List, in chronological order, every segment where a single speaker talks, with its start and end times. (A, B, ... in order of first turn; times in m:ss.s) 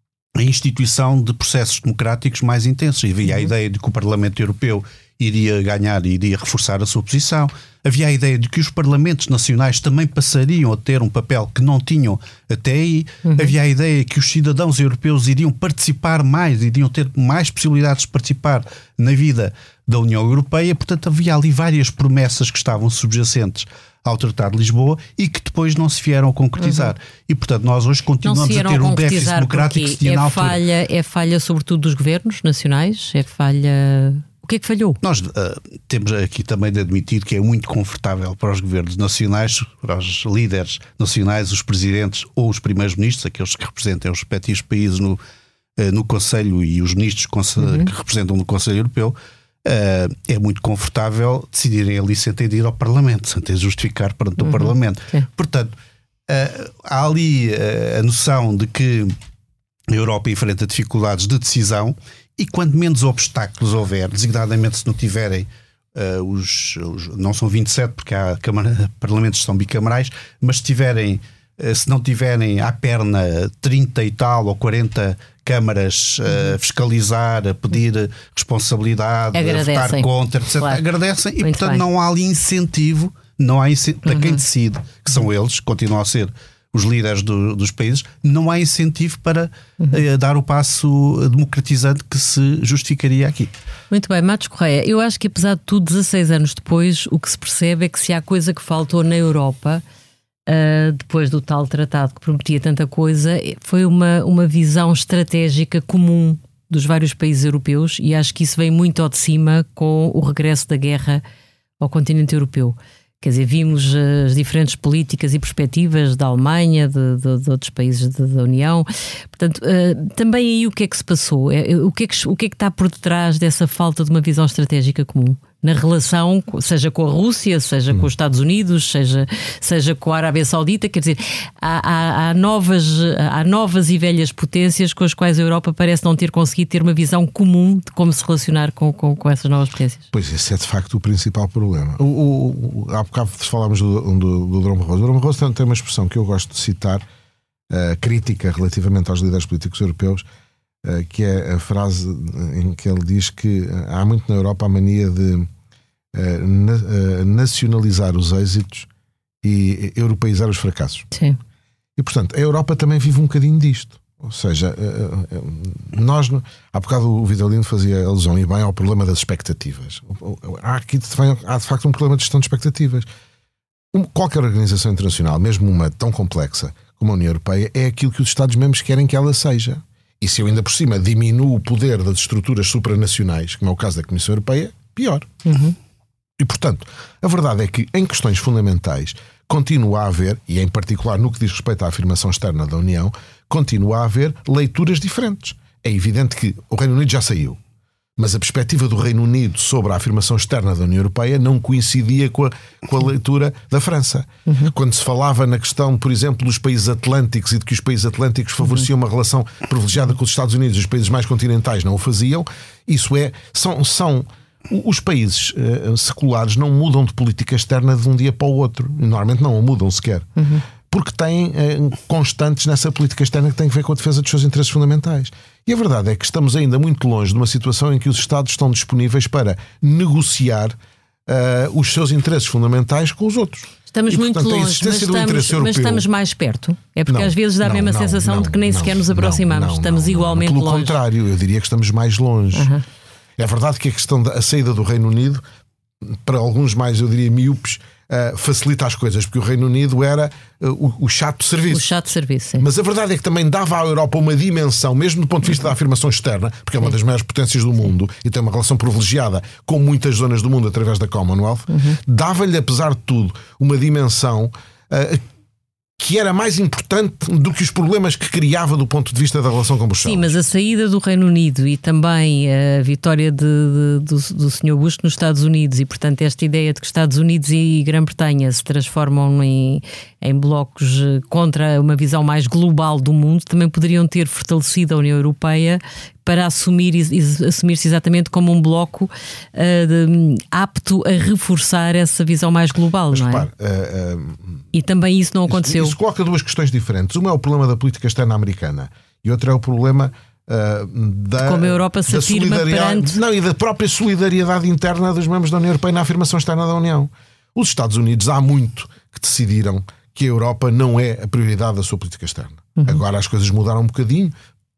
0:00.4-0:30.6 A
0:13.2-0:13.5 B
0:26.6-0:26.9 B
0:28.2-0:35.0 B
0:35.0-0:45.2 A
0:45.8-0:55.7 A
0:47.6-0:47.9 B
0:54.4-0:55.3 B
0:56.3-0:59.2 A
0:59.9-1:33.5 A
1:19.3-1:20.8 B
1:21.4-1:21.8 B
1:24.0-1:24.4 B
1:33.9-1:39.8 B
1:40.5-1:51.2 B
1:51.8-2:20.1 B
2:20.1-2:27.0 C
2:27.7-2:30.2 C
2:30.8-2:35.5 C
2:36.1-2:38.9 C
2:39.4-2:41.1 C
2:41.1-2:41.4 B
2:42.0-2:53.1 C
2:53.9-3:05.4 C
3:05.4-3:05.7 B
3:06.4-3:17.6 C
3:18.2-3:40.3 C
3:24.5-3:24.7 B
3:40.4-3:40.6 B
3:40.9-3:56.0 C
3:53.9-4:00.9 B
3:57.1-4:02.7 C
4:02.5-4:02.8 B
4:03.4-4:05.4 C
4:06.0-4:12.0 C
4:11.7-4:12.6 B
4:12.6-4:25.2 C
4:21.7-4:22.0 B
4:26.0-4:30.3 C
4:30.0-4:53.5 B
4:53.1-4:54.6 C
4:54.7-4:56.0 B
4:55.5-5:14.3 C
5:01.4-5:03.2 B